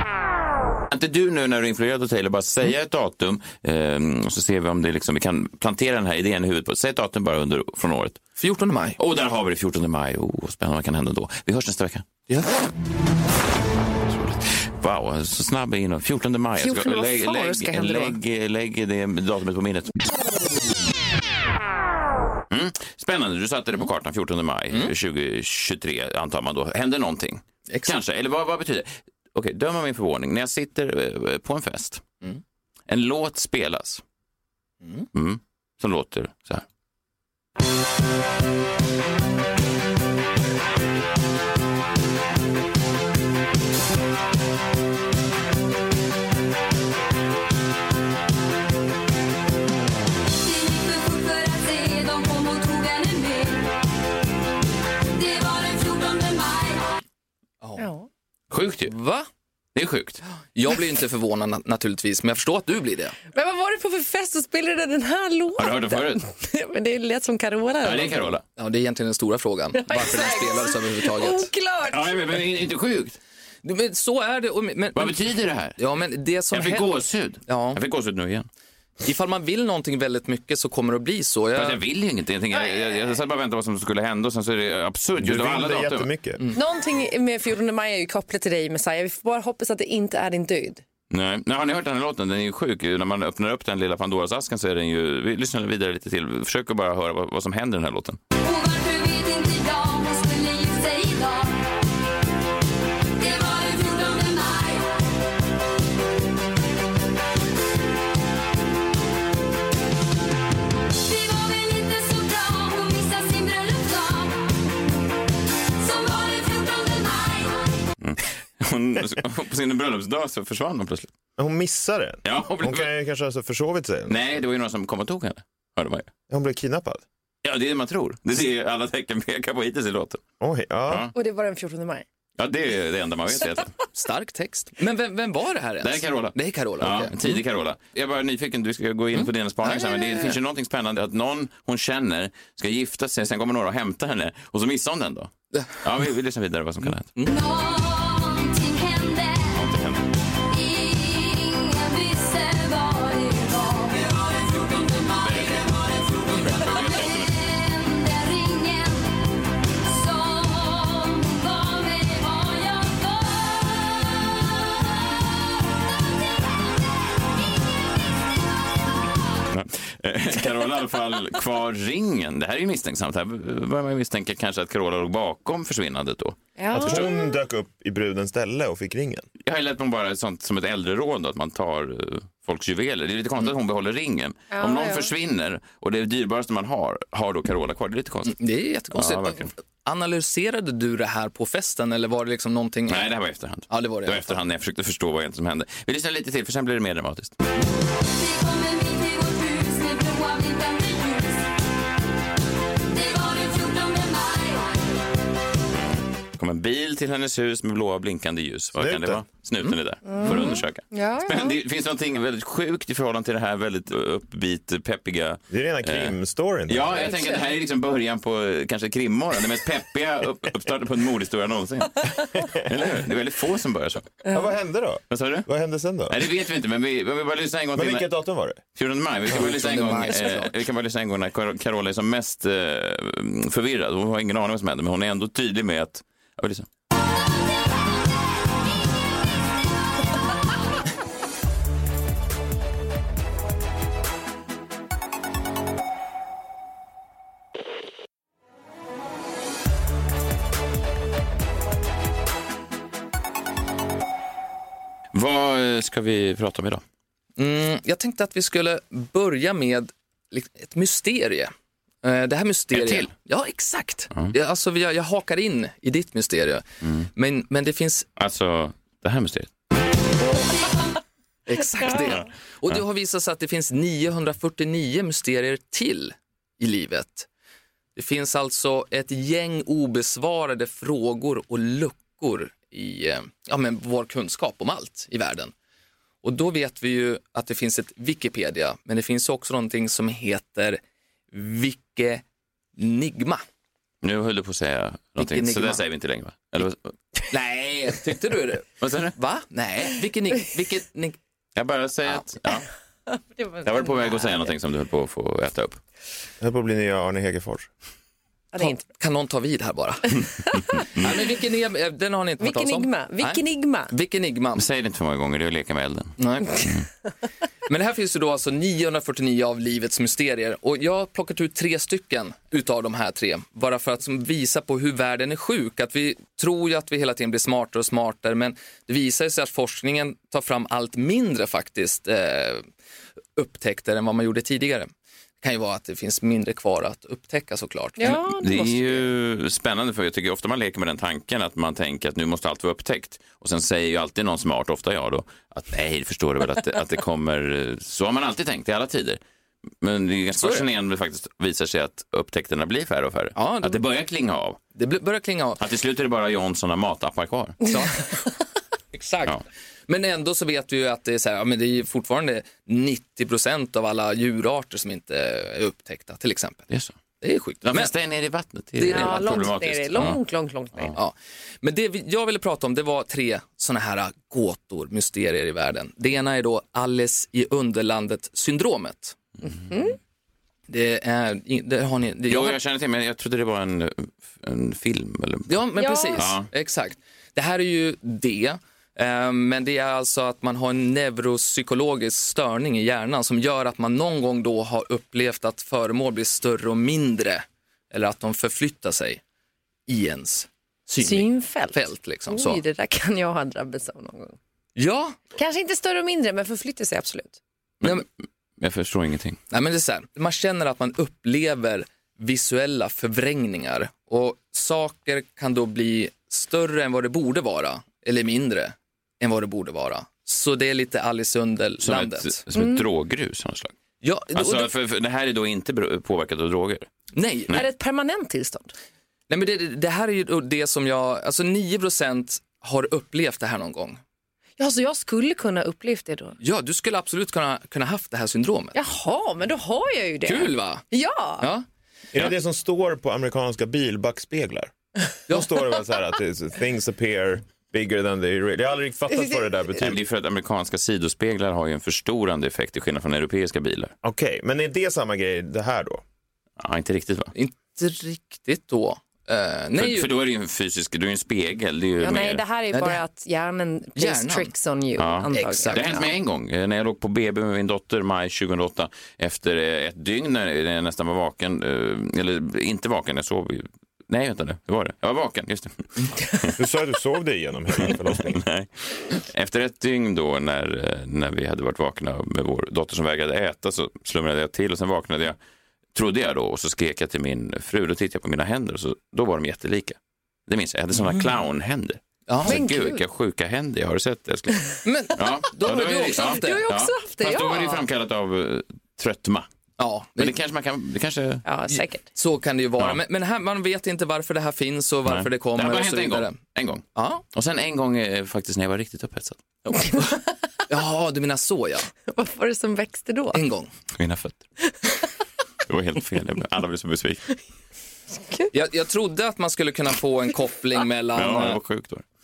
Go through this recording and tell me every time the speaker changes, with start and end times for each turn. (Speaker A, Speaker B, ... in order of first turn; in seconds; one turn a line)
Speaker A: 0.9-8.2
Speaker B: 8.4-9.0
Speaker A: 9.0-12.1
Speaker B: 12.3-12.6
Speaker A: 14.1-20.0
Speaker C: 16.6-18.2
Speaker A: 22.5-32.0
Speaker B: 27.7-28.0
Speaker A: 32.9-34.0
Speaker B: 34.8-35.1
Speaker A: 35.1-36.6
Speaker D: 50.3-53.8
Speaker D: 55.1-56.9
Speaker B: 57.6-57.9
Speaker C: 57.8-58.1
Speaker A: 58.5-58.9
Speaker B: 58.9-59.3
Speaker A: 59.7-60.2
Speaker B: 60.5-63.2
Speaker C: 63.3-68.3
Speaker A: 65.6-66.2
Speaker A: 67.8-68.4
Speaker B: 68.6-71.5
Speaker C: 69.7-72.2
Speaker A: 71.9-73.2
Speaker B: 73.6-75.2
Speaker A: 74.9-75.8
Speaker B: 75.8-76.9
Speaker A: 76.5-78.5
Speaker B: 77.5-77.8
Speaker B: 79.0-81.8
Speaker A: 81.5-86.1
Speaker E: 85.2-86.4
Speaker C: 86.5-90.8
Speaker A: 91.1-98.2
Speaker D: 98.4-101.8
Speaker D: 103.2-105.1
Speaker D: 110.9-114.5
Speaker D: 115.8-117.7
Speaker A: 118.0-121.1
Speaker E: 121.4-124.2
Speaker A: 122.2-122.9
Speaker A: 124.1-126.1
Speaker E: 126.3-127.0
Speaker A: 127.4-130.2
Speaker E: 130.4-131.1
Speaker A: 130.9-131.1
Speaker C: 131.1-132.0
Speaker A: 132.4-133.7
Speaker B: 133.9-137.4
Speaker A: 135.8-147.1
Speaker B: 139.1-140.3
Speaker B: 145.5-145.8
Speaker D: 147.2-149.6
Speaker A: 149.5-150.1
Speaker D: 150.4-159.2
Speaker A: 155.2-157.3
Speaker D: 159.7-165.2
Speaker A: 169.5-177.1
Speaker C: 176.6-177.3
Speaker E: 176.7-179.2
Speaker A: 179.4-188.4
Speaker C: 184.5-185.1
Speaker B: 188.3-193.1
Speaker A: 188.9-189.5
Speaker A: 192.9-197.3
Speaker B: 193.7-194.4
Speaker D: 198.0-201.5
Speaker D: 202.9-204.8
Speaker A: 205.7-216.2
Speaker E: 208.8-209.2
Speaker C: 210.1-211.6
Speaker E: 215.5-217.2
Speaker A: 216.7-224.2
Speaker C: 217.1-217.4
Speaker E: 224.3-226.2
Speaker A: 225.1-225.5
Speaker A: 226.1-228.1
Speaker E: 227.7-228.6
Speaker A: 228.7-236.7
Speaker B: 229.3-230.5
Speaker A: 255.1-256.8
Speaker B: 257.4-261.5
Speaker B: 262.0-266.6
Speaker A: 262.7-263.1
Speaker A: 266.8-267.1
Speaker B: 267.1-268.1
Speaker A: 268.2-269.5
Speaker B: 271.5-277.3
Speaker B: 277.9-285.5
Speaker B: 286.2-290.8
Speaker B: 291.3-292.2
Speaker B: 292.8-293.4
Speaker A: 294.0-296.9
Speaker B: 295.2-295.8
Speaker B: 297.3-301.2
Speaker A: 298.8-299.1
Speaker A: 301.6-302.7
Speaker C: 303.1-304.5
Speaker A: 303.6-305.8
Speaker E: 306.4-307.7
Speaker C: 308.5-308.8
Speaker B: 308.6-314.6
Speaker C: 310.5-310.9
Speaker C: 312.4-313.9
Speaker A: 314.6-316.9
Speaker B: 316.2-316.7
Speaker B: 317.7-332.6
Speaker B: 333.4-334.9
Speaker B: 335.4-338.1
Speaker C: 338.0-339.1
Speaker A: 338.0-349.2
Speaker A: 349.8-354.6
Speaker B: 350.4-350.6
Speaker B: 353.4-353.8
Speaker B: 354.7-355.6
Speaker A: 355.6-357.6
Speaker B: 357.6-358.1
Speaker B: 358.9-366.7
Speaker A: 366.7-366.9
Speaker B: 367.2-367.9
Speaker A: 367.6-370.2
Speaker B: 368.8-369.4
Speaker C: 368.8-371.0
Speaker B: 370.9-379.2
Speaker C: 379.4-380.0
Speaker B: 380.7-382.6
Speaker A: 382.3-385.6
Speaker B: 385.5-399.2
Speaker C: 385.8-386.3
Speaker A: 386.1-386.5
Speaker B: 399.9-402.6
Speaker C: 401.0-404.4
Speaker B: 404.8-405.2
Speaker C: 405.4-407.4
Speaker A: 407.8-408.1
Speaker A: 408.6-409.4
Speaker B: 409.5-422.4
Speaker A: 421.8-423.7
Speaker C: 422.5-422.9
Speaker B: 424.0-424.7
Speaker A: 424.3-426.9
Speaker B: 427.1-427.6
Speaker C: 427.5-428.7
Speaker B: 429.3-434.0
Speaker C: 434.6-436.4
Speaker B: 436.4-438.8
Speaker C: 438.7-441.5
Speaker B: 440.2-440.8
Speaker B: 441.4-441.6
Speaker E: 442.1-444.7
Speaker E: 445.3-450.0
Speaker A: 449.8-453.9
Speaker E: 454.0-456.0
Speaker A: 456.6-457.3
Speaker B: 457.3-460.1
Speaker A: 459.8-462.4
Speaker C: 462.0-466.0
Speaker B: 462.7-463.0
Speaker B: 463.9-464.5
Speaker A: 464.9-476.6
Speaker B: 465.3-466.1
Speaker E: 476.6-478.4
Speaker A: 477.8-485.4
Speaker A: 485.9-499.5
Speaker B: 492.3-492.6
Speaker C: 492.5-493.0
Speaker B: 494.8-496.6
Speaker C: 496.1-497.8
Speaker B: 499.8-500.3
Speaker A: 500.2-501.4
Speaker C: 501.4-502.1
Speaker B: 501.7-506.4
Speaker A: 505.1-509.4
Speaker B: 506.9-507.2
Speaker C: 509.7-510.2
Speaker B: 510.7-511.9
Speaker C: 512.1-513.4
Speaker B: 513.3-513.7
Speaker A: 514.0-514.4
Speaker A: 515.7-517.3
Speaker C: 518.2-518.5
Speaker B: 518.5-521.6
Speaker A: 521.1-522.0